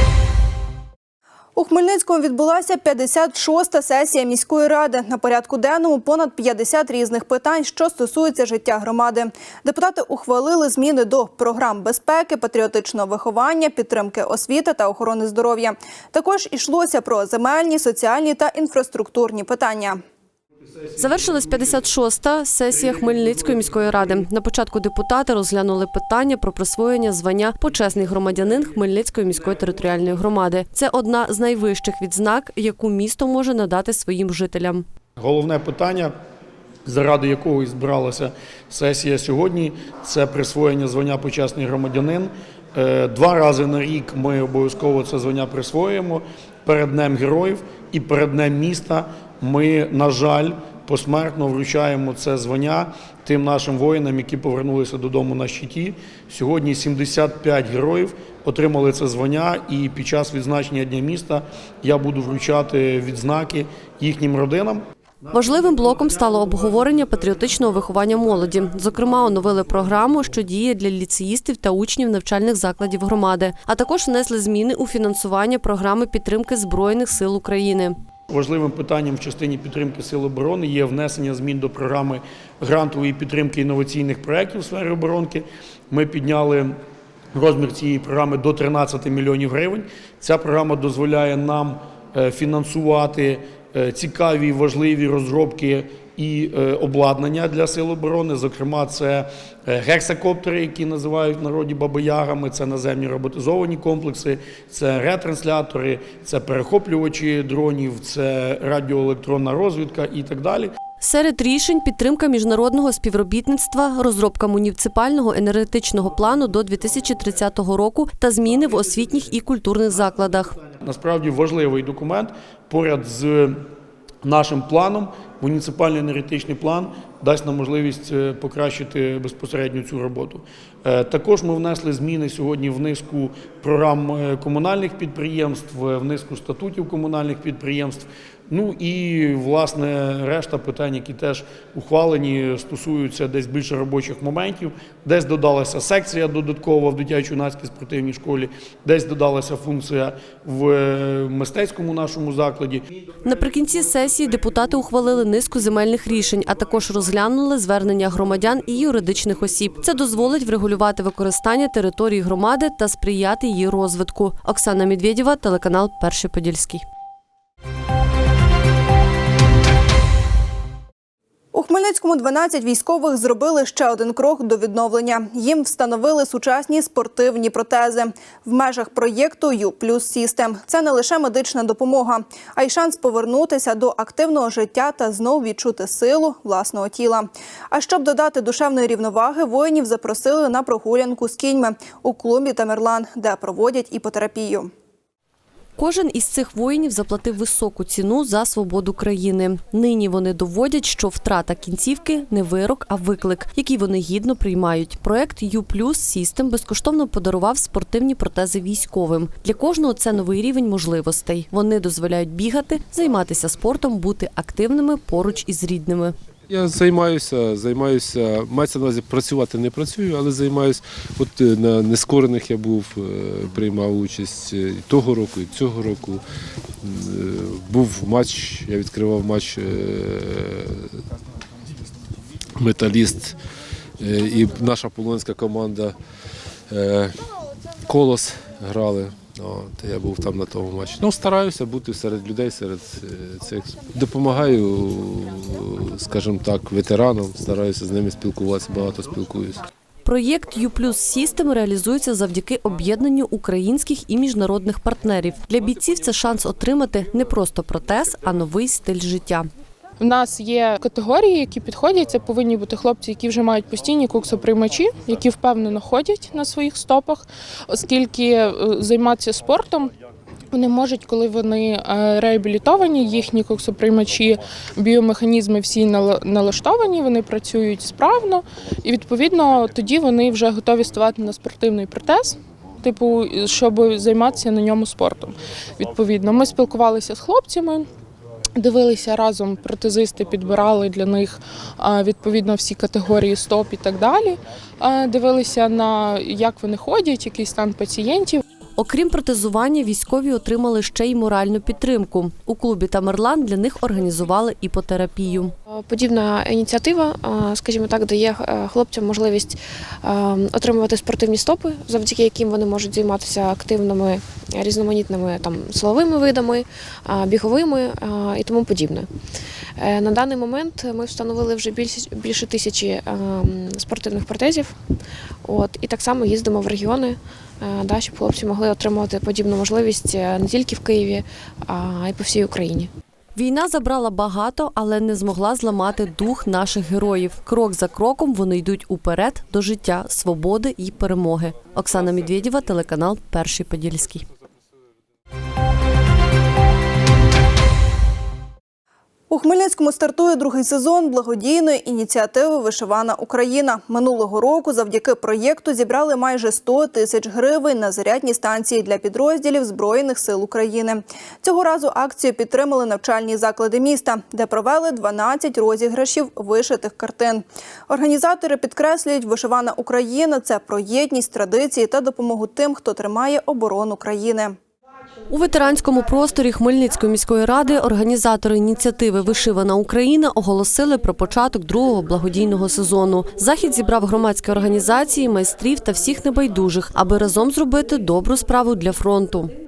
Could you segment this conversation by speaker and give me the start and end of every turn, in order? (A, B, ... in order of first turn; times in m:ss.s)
0:01.6-0:20.0 A
0:21.0-0:34.9 B
0:35.2-0:36.1 C
0:36.9-1:04.8 C
1:05.3-1:18.0 B
1:18.3-1:26.8 C
1:27.3-1:50.7 C
1:51.0-2:00.6 B
2:00.8-2:03.6 C
2:04.2-2:32.8 C
2:33.2-2:46.8 B
2:51.5-3:14.7 A
3:15.8-3:36.2 B
3:36.5-3:46.2 D
3:46.8-3:51.0 D
3:52.6-3:53.4 D
3:54.0-3:56.0 D
3:56.7-3:57.2 D
3:57.9-4:09.6 D
4:10.0-4:19.5 B
4:20.0-4:29.9 E
4:30.5-4:47.9 E
4:48.6-4:58.4 E
4:58.8-5:05.5 B
5:05.7-5:19.1 F
5:19.8-5:24.8 F
5:25.4-5:32.9 F
5:33.4-5:44.2 B
5:49.3-6:14.6 A
6:15.3-6:29.5 B